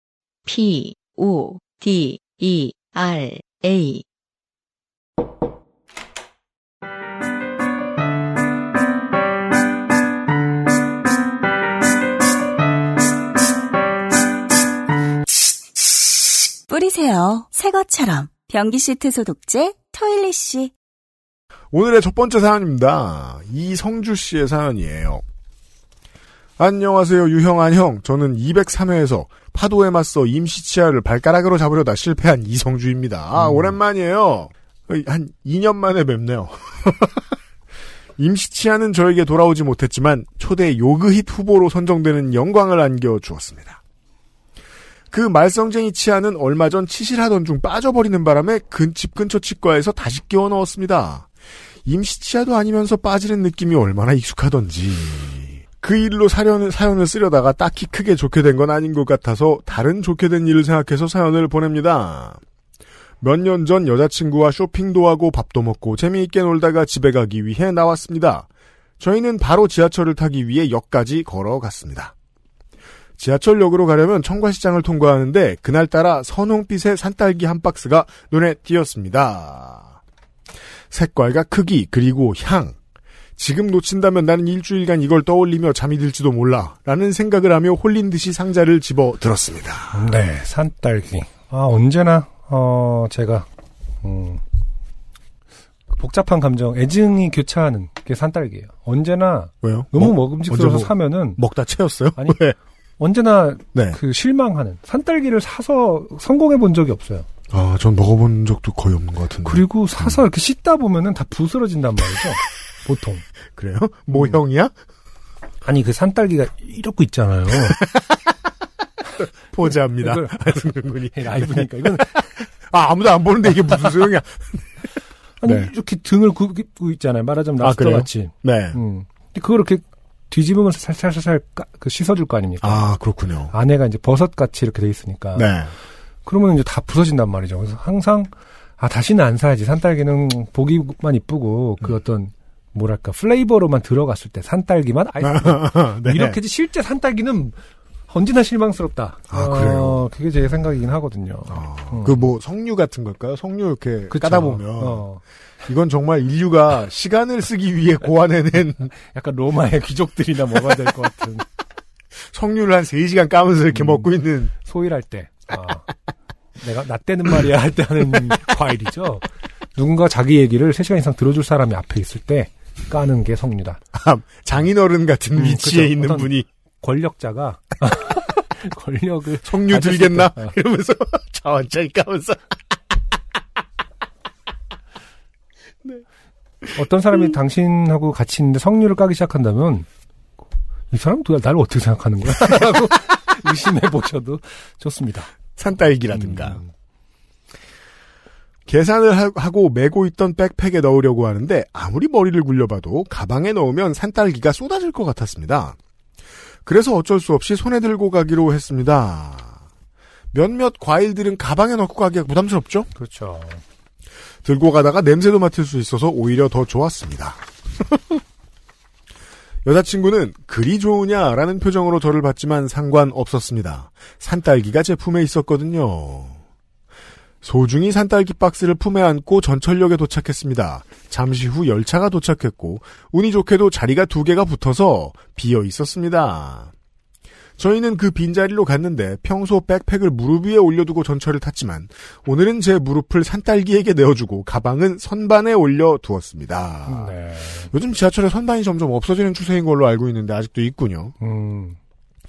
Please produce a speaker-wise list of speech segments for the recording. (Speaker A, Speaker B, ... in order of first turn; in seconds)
Speaker A: 0.5-4.0
Speaker B: 16.7-20.7
Speaker C: 21.7-25.2, 26.6-37.2, 38.2-43.8, 45.1-51.3, 51.9-62.4, 63.2-68.5, 69.0-72.1, 73.2-80.0, 80.9-82.8, 83.4-90.1, 99.6-102.6, 103.7-104.0, 107.5-110.2, 113.6-114.7, 119.5-124.7, 125.4-125.7, 127.6-128.8, 132.6-133.5, 135.4-135.7, 145.2-146.4, 149.3-150.0, 151.5-155.1, 155.7-158.9, 162.3-164.5, 173.9-176.5, 179.4-182.4, 195.6-196.6, 198.7-205.8, 206.7-209.6, 210.3-212.9, 214.4-218.2, 219.7-226.4, 227.4-236.7, 237.6-247.2, 247.7-251.1
Speaker D: 33.4-33.8, 89.9-93.5, 94.0-94.4, 95.9-101.4, 102.2-102.4, 103.0-107.3, 109.5-113.3, 114.1-114.4, 115.6-117.8, 120.0-120.6, 121.1-122.3, 125.4-132.9, 133.5-135.5, 136.2-147.6, 148.1-152.2, 154.1-155.2, 158.9-161.4, 163.7-165.9, 166.6-173.8, 175.3-180.6, 186.7-189.9, 190.9-195.3, 196.1-196.7, 212.9-213.6, 246.9-247.7, 251.2-251.8